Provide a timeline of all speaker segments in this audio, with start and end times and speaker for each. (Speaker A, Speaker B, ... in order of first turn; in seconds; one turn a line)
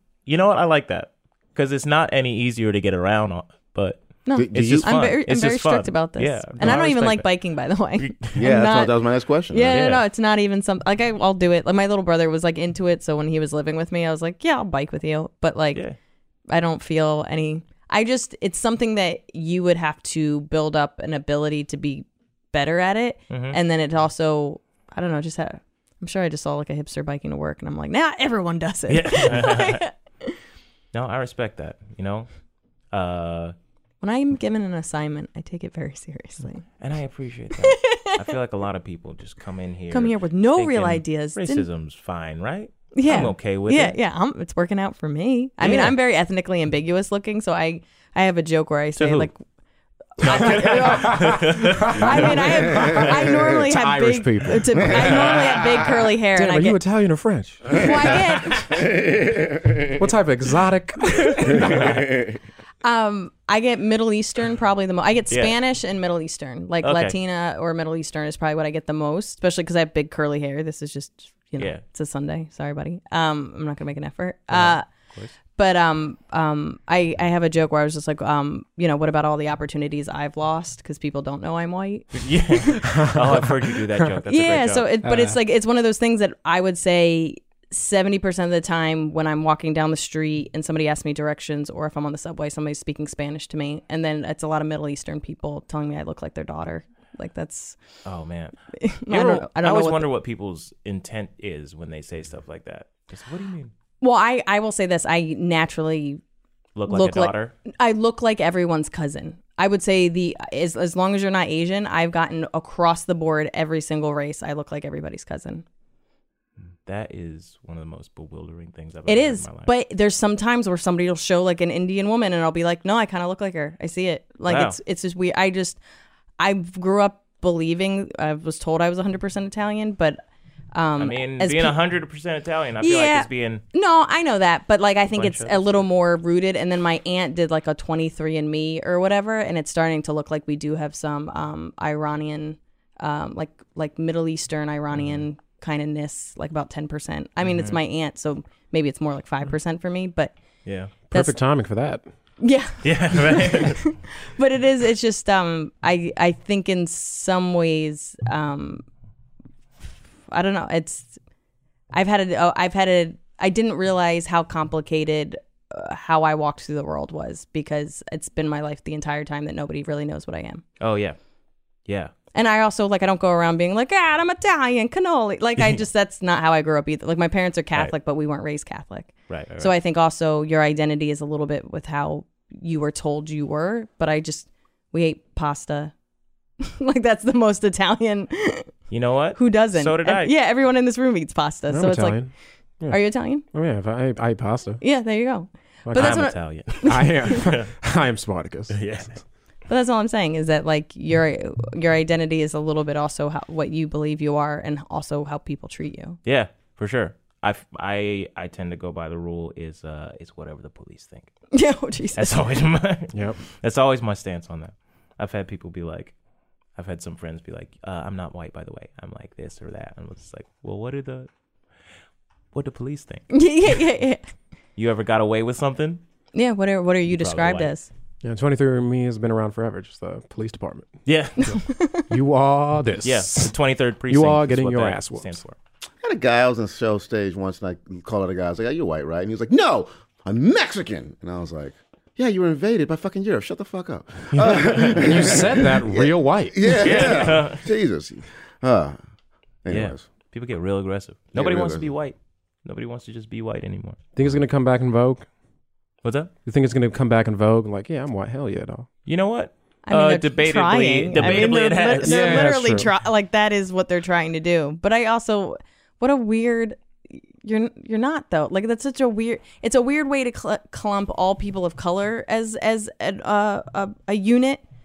Speaker A: 0.3-7.3
Speaker B: 4.3-8.9
Speaker C: 4.3-4.9
Speaker A: 8.0-8.3
Speaker C: 8.3-9.8
Speaker B: 9.5-15.8
Speaker A: 9.7-10.0
Speaker B: 16.5-30.4
Speaker A: 23.3-23.6
Speaker A: 28.9-29.9
Speaker A: 30.9-32.3
Speaker A: 32.9-33.5
Speaker B: 34.0-36.6
Speaker A: 36.8-44.0
Speaker B: 37.6-38.2
Speaker B: 39.9-41.7
Speaker B: 42.9-49.4
Speaker A: 45.6-45.9
Speaker A: 49.0-49.3
Speaker B: 50.2-56.8
Speaker A: 50.2-52.4
Speaker D: 50.3-58.2
Speaker B: 57.8-58.7
Speaker C: 58.7-59.9
Speaker D: 59.9-62.2
Speaker A: 61.3-62.0
Speaker C: 61.9-62.4
Speaker B: 62.8-74.8
Speaker A: 65.3-65.5
Speaker A: 66.8-67.2
Speaker A: 74.5-75.3
Speaker B: 75.5-82.9
Speaker A: 82.1-84.9
Speaker D: 82.9-83.5
Speaker B: 84.3-97.8
Speaker D: 85.0-85.4
Speaker A: 98.0-98.6
Speaker B: 98.8-100.1
Speaker A: 99.1-103.7
Speaker B: 104.0-106.2
Speaker A: 106.8-107.5
Speaker B: 106.9-115.7
Speaker A: 116.9-119.7
Speaker B: 119.1-125.8
Speaker A: 124.5-124.8
Speaker B: 126.4-130.2
Speaker B: 130.7-131.8
Speaker A: 131.0-133.6
Speaker B: 132.8-150.3
Speaker A: 135.1-135.9
Speaker A: 145.0-145.2
Speaker A: 147.4-147.8
Speaker A: 150.7-150.9
Speaker B: 151.1-151.4
Speaker D: 151.1-152.1
Speaker B: 152.4-158.8
Speaker A: 152.8-153.9
Speaker B: 160.3-161.2
Speaker B: 161.9-170.6
Speaker A: 170.8-171.2
Speaker A: 171.9-172.1
Speaker B: 172.3-185.9
Speaker A: 179.3-179.7
Speaker B: 186.6-188.7
Speaker A: 188.9-190.3
Speaker B: 189.3-192.3
Speaker D: 191.7-194.8
Speaker B: 192.9-193.4
Speaker B: 194.8-197.3
Speaker D: 195.8-199.0
Speaker A: 195.9-197.7
Speaker A: 198.7-199.2
Speaker B: 199.7-206.2
Speaker A: 206.2-211.3
Speaker B: 211.5-212.5
Speaker A: 212.2-216.2
Speaker D: 213.1-213.4
Speaker A: 216.8-221.3
Speaker A: 222.5-223.3
Speaker B: 223.3-224.2
Speaker A: 224.8-226.0
Speaker B: 226.3-227.9
Speaker A: 227.1-227.7
Speaker D: 228.2-231.6
Speaker A: 231.1-231.7
Speaker B: 231.5-232.1
Speaker D: 232.1-233.5
Speaker A: 233.0-235.6
Speaker D: 234.1-235.4
Speaker C: 236.0-249.0
Speaker A: 244.4-245.4
Speaker D: 244.4-247.3
Speaker A: 246.8-247.7
Speaker C: 249.6-250.0
Speaker A: 249.7-254.0
Speaker C: 251.3-251.9
Speaker D: 254.2-255.3
Speaker A: 256.0-256.3
Speaker D: 256.5-258.9
Speaker A: 259.1-262.5
Speaker B: 259.9-274.6
Speaker D: 261.2-261.5
Speaker D: 262.0-262.9